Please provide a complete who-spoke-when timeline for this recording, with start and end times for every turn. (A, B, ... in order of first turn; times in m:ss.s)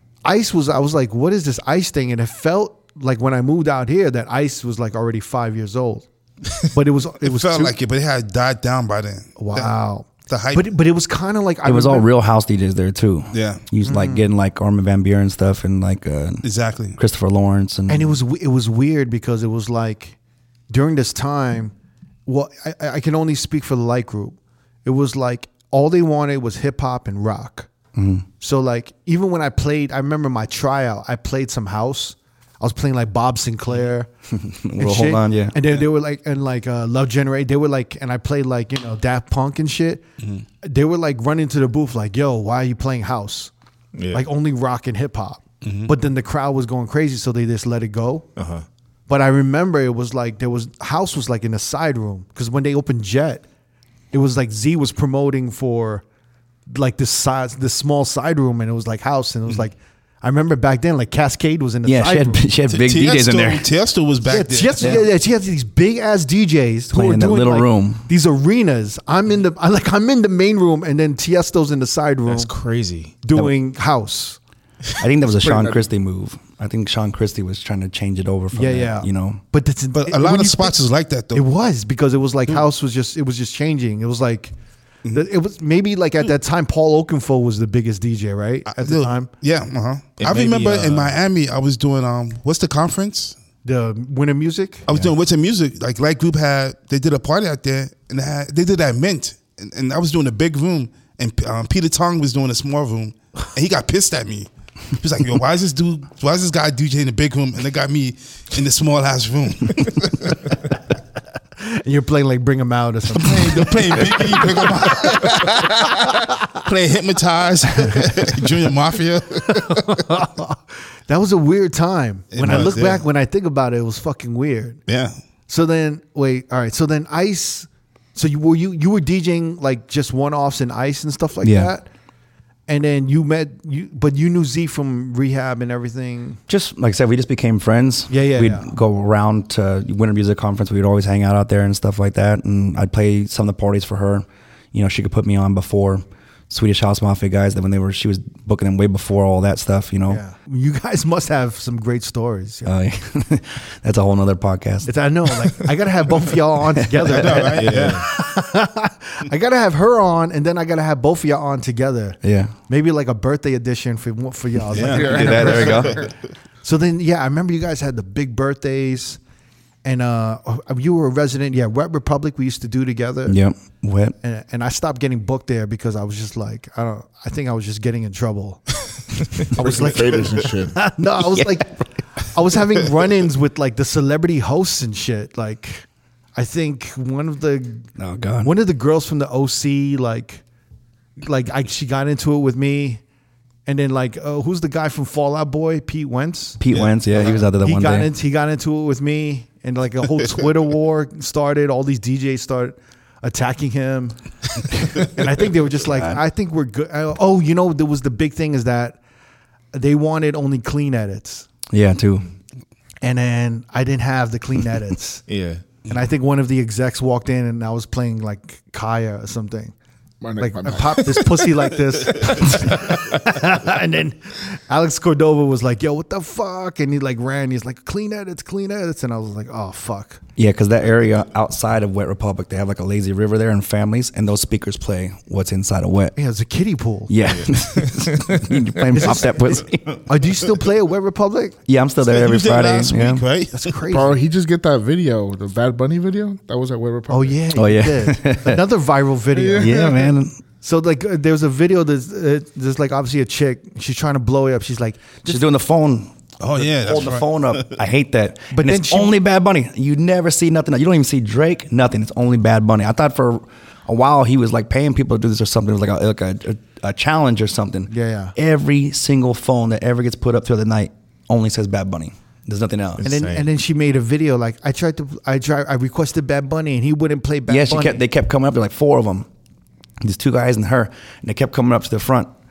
0:00.2-0:06.0 A
0:06.6-0:07.7 A
0:07.2-0:10.7 B
0:09.4-0:12.1 A
0:11.6-0:16.4 C
0:13.3-0:13.6 B
0:13.8-0:14.2 A
0:16.4-0:17.0 B
0:17.0-0:18.2 C
0:17.9-0:20.2 A
0:20.7-0:21.7 A
0:22.2-0:27.7 A
0:27.9-0:28.2 C
0:28.4-0:34.1 A
0:34.3-0:35.5 C
0:34.8-0:40.0 A
0:40.6-0:43.5 A
0:43.9-0:44.2 D
0:44.1-0:48.3 A
0:45.6-0:45.9 B
0:48.4-0:48.6 D
0:49.1-0:53.4 A
0:54.1-0:56.0 A
0:56.7-1:02.4 A
1:01.8-1:03.7 C
1:02.7-1:05.0 B
1:04.2-1:12.5 A
1:06.9-1:08.0 C
1:12.3-1:13.1 D
1:13.2-1:14.4 A
1:15.0-1:19.4 C
1:15.4-1:15.8 E
1:18.5-1:20.8 A
1:19.9-1:21.4 B
1:21.3-1:24.5 A
1:25.1-1:29.3 A
1:28.7-1:33.3 B
1:30.2-1:31.2 D
1:33.6-1:34.9 A
1:34.9-1:50.5 B
1:51.6-1:56.1 A
1:53.2-2:00.0 B
1:59.4-2:04.8 A
2:02.3-2:03.0 B
2:04.9-2:05.2 B
2:05.5-2:11.9 A
2:11.4-2:11.7 C
2:12.7-2:16.4 A
2:16.5-2:30.2 C
2:18.1-2:18.7 A
2:30.1-2:32.7 A
2:32.6-2:34.9 C
2:34.8-2:46.0 A
2:36.9-2:37.4 C
2:37.1-2:38.0 B
2:37.6-2:38.0 D
2:42.2-2:42.5 C
2:44.7-2:45.5 B
2:44.8-2:46.1 E
2:44.9-2:46.0 C
2:46.6-2:49.2 A
2:49.8-2:53.4 A
2:53.3-2:54.1 C
2:54.2-3:07.9 A
2:59.5-3:00.8 E
3:08.0-3:08.5 C
3:08.4-3:10.4 A
3:11.2-3:13.0 A
3:13.6-3:16.6 A
3:16.6-3:18.1 C
3:17.2-3:29.0 A
3:29.7-3:31.4 A
3:31.7-3:32.3 C
3:33.0-3:35.2 A
3:35.3-3:35.6 D
3:35.9-3:39.7 A
3:40.2-3:41.2 E
3:40.4-3:50.2 A
3:50.4-3:56.1 C
3:56.2-3:57.1 A
3:57.1-4:00.0 C
3:57.8-3:58.4 D
3:58.9-4:01.6 A
4:01.7-4:03.2 C
4:02.0-4:03.7 B
4:03.5-4:04.2 A
4:03.9-4:07.4 E
4:07.1-4:09.8 A
4:07.5-4:08.6 C
4:09.3-4:10.1 E
4:09.6-4:10.4 C
4:10.6-4:15.4 A
4:15.2-4:33.0 C
4:16.4-4:17.7 B
4:18.5-4:19.2 A
4:27.9-4:28.3 A
4:33.0-4:33.4 D
4:33.0-4:38.0 A
4:37.5-4:39.3 C
4:40.0-4:42.3 C